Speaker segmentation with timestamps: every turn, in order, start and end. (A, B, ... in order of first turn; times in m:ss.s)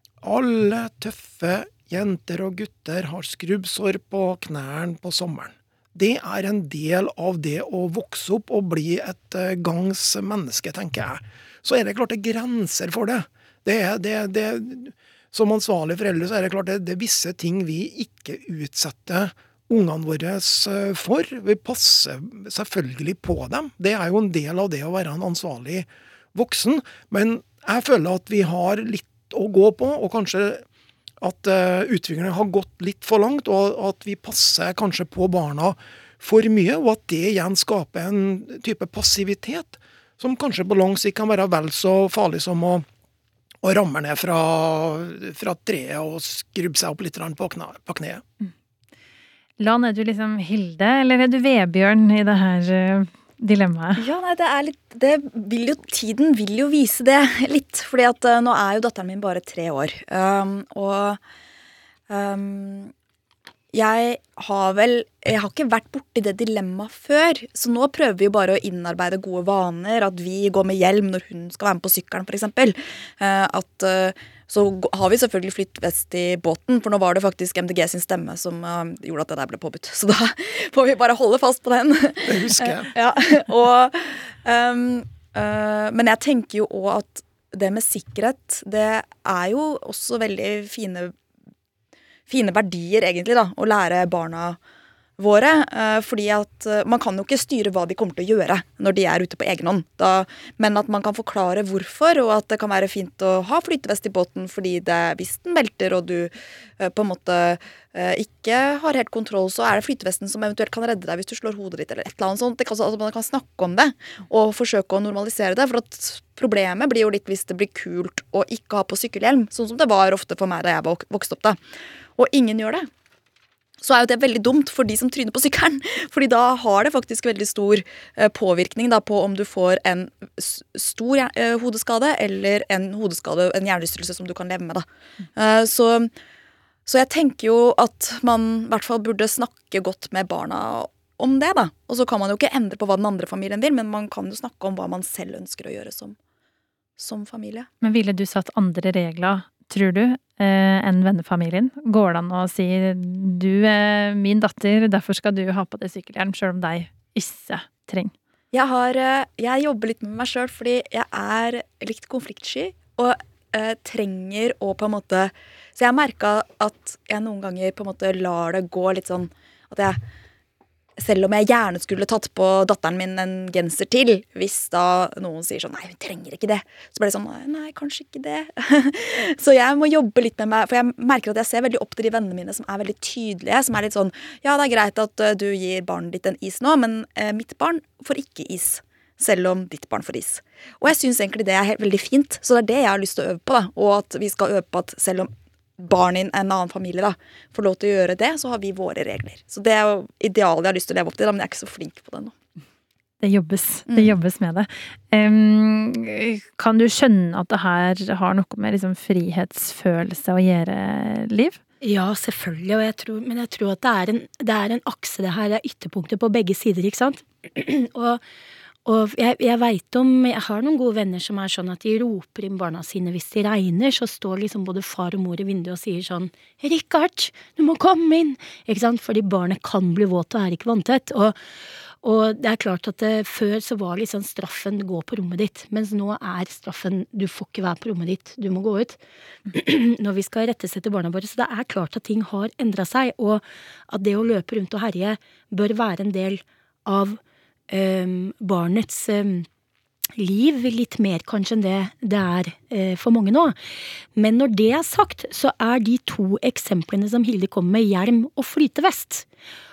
0:00.2-0:30.6 A
0:31.2-0:42.8 A
0:43.6-0:48.2 A
0:49.6-0:54.0 B
0:54.0-1:01.2 C
1:02.1-1:02.9 C
1:03.7-1:31.1 C
1:22.2-1:22.9 A
1:32.3-1:34.6 C
1:35.2-2:01.6 C
2:02.2-2:02.9 C
2:03.8-2:16.1 C
2:16.8-2:26.2 C
2:27.0-2:27.7 C
2:27.8-2:38.1 B
2:38.5-2:50.0 C
2:51.0-3:22.3 C
3:23.2-3:31.6 B
3:23.9-3:24.1 C
3:31.8-3:38.2 D
3:38.8-3:51.4 D
3:52.0-3:59.0 D
3:59.5-4:07.2 D
4:07.7-4:09.5 D
4:10.2-4:13.6 D
4:14.2-4:19.2 D